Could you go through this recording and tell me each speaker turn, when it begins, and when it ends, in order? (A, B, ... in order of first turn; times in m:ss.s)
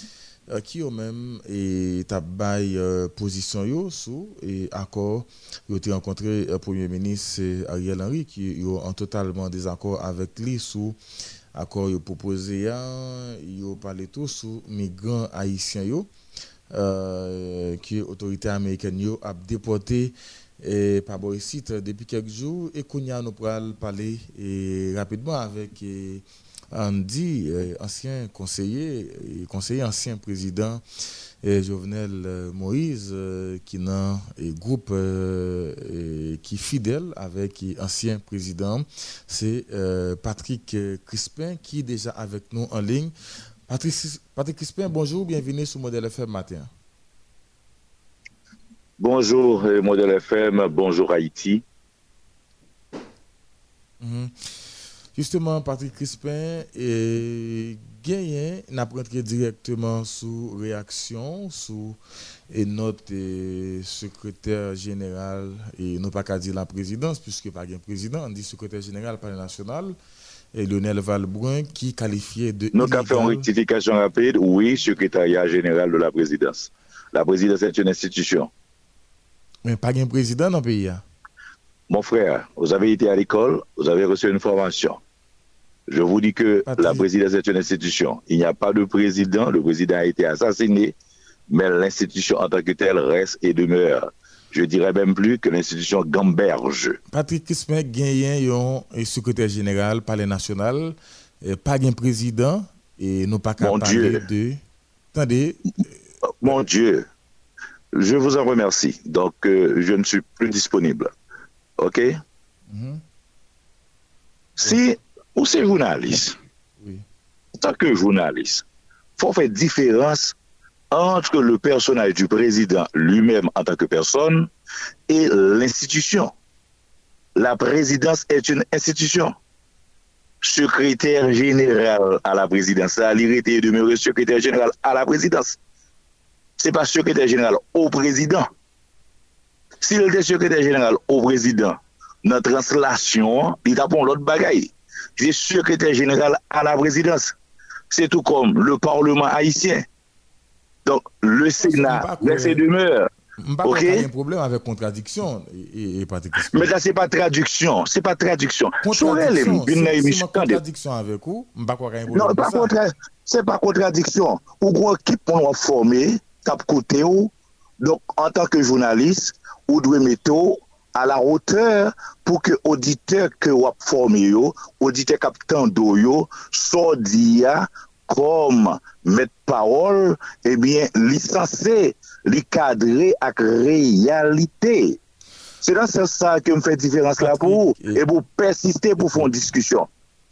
0:00.5-0:11.0 A
0:11.5-0:16.1 A
0:16.7-0:30.8 A
0:31.4-0:43.1 A
0:43.7-0:46.7 A
0:49.0-0:51.6 B
0:54.0-0:54.4 A
0:55.1-1:02.0 A
1:02.5-1:10.0 A
1:10.5-1:13.5 A
1:12.8-1:18.5 B
1:19.6-1:21.0 A
1:21.9-1:25.0 B
1:25.9-1:30.9 B
1:26.7-1:27.1 A
1:31.5-1:37.0 B
1:37.1-1:44.6 A
1:43.6-1:44.2 B
1:45.1-1:45.6 A
1:46.4-1:47.1 B
1:48.0-1:51.1 B
1:51.8-1:52.1 B
1:52.7-1:53.0 A
1:54.6-1:56.4 B
1:56.8-1:57.1 A
1:57.6-1:58.6 B
1:59.2-2:00.4 B
2:00.9-2:04.5 B
2:05.1-2:06.3 B
2:07.4-2:09.4 B
2:10.4-2:15.6 B
2:16.6-2:18.5 B
2:19.8-2:27.3 B
2:27.9-2:29.8 B
2:30.9-2:33.1 B
2:31.6-2:32.6 A
2:33.4-2:36.7 A
2:33.6-2:34.1 B
2:36.5-2:40.6 B
2:38.8-2:42.7 A
2:42.1-3:05.0 B
3:05.6-3:09.9 B
3:07.2-3:08.0 A
3:09.0-3:09.4 A